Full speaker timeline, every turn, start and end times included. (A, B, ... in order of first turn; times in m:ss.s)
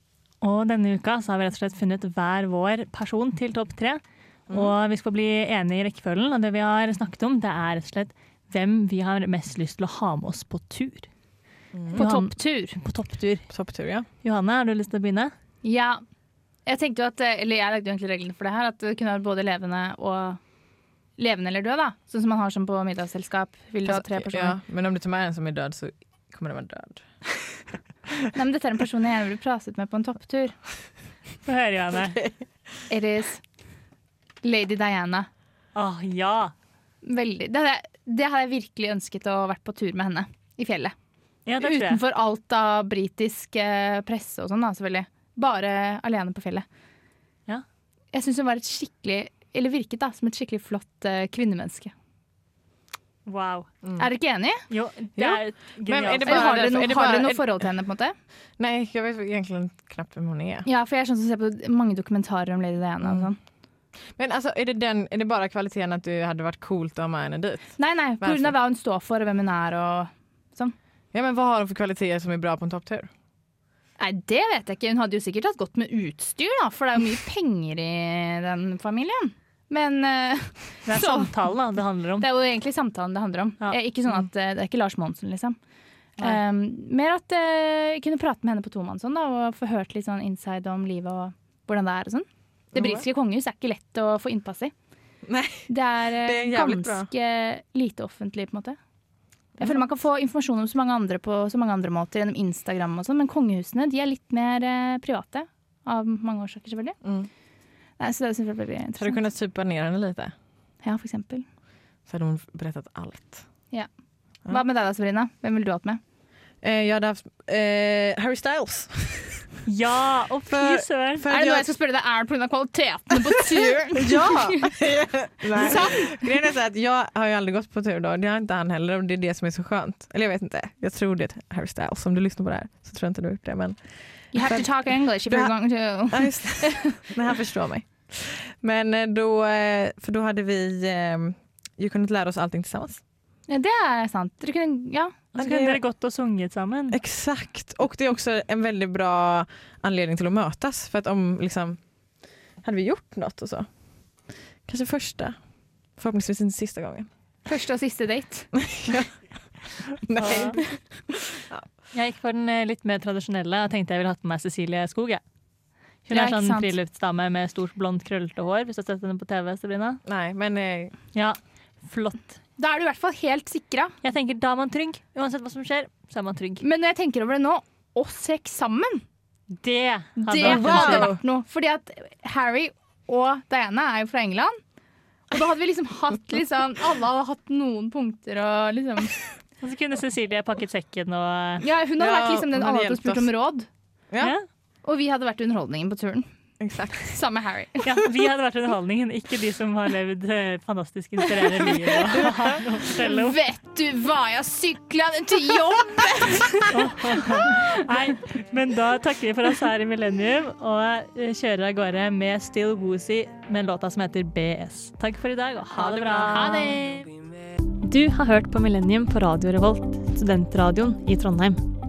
0:00.4-0:11.1 A
0:04.5-0:04.7 B
0:11.7-0:12.0 B
0:11.9-0:12.7 C
0:11.9-0:13.5 A
0:13.5-0:14.1 B
0:14.2-0:15.3 A
0:15.6-0:16.0 C
0:16.6-0:20.4 C
0:21.2-0:24.6 C
0:23.8-0:27.0 B
0:28.3-0:30.5 C
0:31.4-0:32.2 A
0:32.9-0:33.4 C
0:34.4-0:35.3 C
0:35.7-0:36.5 A
0:37.0-0:40.9 C
0:41.5-0:42.0 A
0:41.6-0:46.6 C
0:48.1-0:51.9 C
0:53.2-0:53.7 A
0:54.0-0:54.6 C
0:54.7-0:56.6 A
0:55.2-0:57.7 B
0:56.2-0:58.1 C
0:58.6-1:00.7 B
1:00.6-1:03.4 C
1:03.0-1:03.3 B
1:04.2-1:08.5 B
1:07.8-1:10.7 C
1:11.1-1:13.1 B
1:14.0-1:21.5 C
1:20.8-1:22.3 A
1:22.2-1:25.6 C
1:26.2-1:34.7 C
1:32.7-1:33.0 B
1:35.2-1:37.1 B
1:35.7-1:38.8 C
1:39.6-1:47.0 C
1:47.0-1:47.3 B
1:48.0-1:49.2 C
1:49.0-1:50.3 B
1:50.8-1:51.4 C
1:52.1-1:53.4 B
1:54.5-1:56.0 C
1:56.6-1:59.5 B
1:59.6-2:01.3 A
2:00.5-2:01.7 B
2:01.3-2:04.7 C
2:03.9-2:13.8 B
2:05.5-2:06.2 C
2:14.3-2:17.0 C
2:14.3-2:15.5 B
2:16.1-2:23.0 B
2:23.5-2:25.2 C
2:25.3-2:27.0 A
2:25.4-2:25.8 B
2:26.9-2:31.8 B
2:32.6-2:33.7 B
2:34.6-2:35.4 B
2:36.0-2:37.1 B
2:37.4-2:38.5 C
2:38.5-2:39.1 B
2:40.0-2:41.7 B
2:40.2-2:40.6 A
2:41.9-2:45.2 A
2:46.0-2:50.0 A
2:46.1-2:46.7 C
2:50.0-2:50.9 B
2:51.1-2:52.4 A
2:52.6-2:53.9 C
2:54.0-2:56.6 A
2:56.6-2:59.0 C
2:59.5-3:01.2 A
3:00.2-3:04.6 C
3:00.4-3:01.2 B
3:05.3-3:09.2 C
3:09.6-3:11.6 A
3:11.6-3:13.7 C
3:12.0-3:13.3 B
3:14.1-3:14.4 B
3:14.8-3:16.3 C
3:16.6-3:17.2 B
3:17.0-3:17.9 C
3:17.8-3:23.4 A
3:23.0-3:27.8 C
3:26.7-3:36.9 A
3:35.8-3:37.1 C
3:37.8-3:41.6 A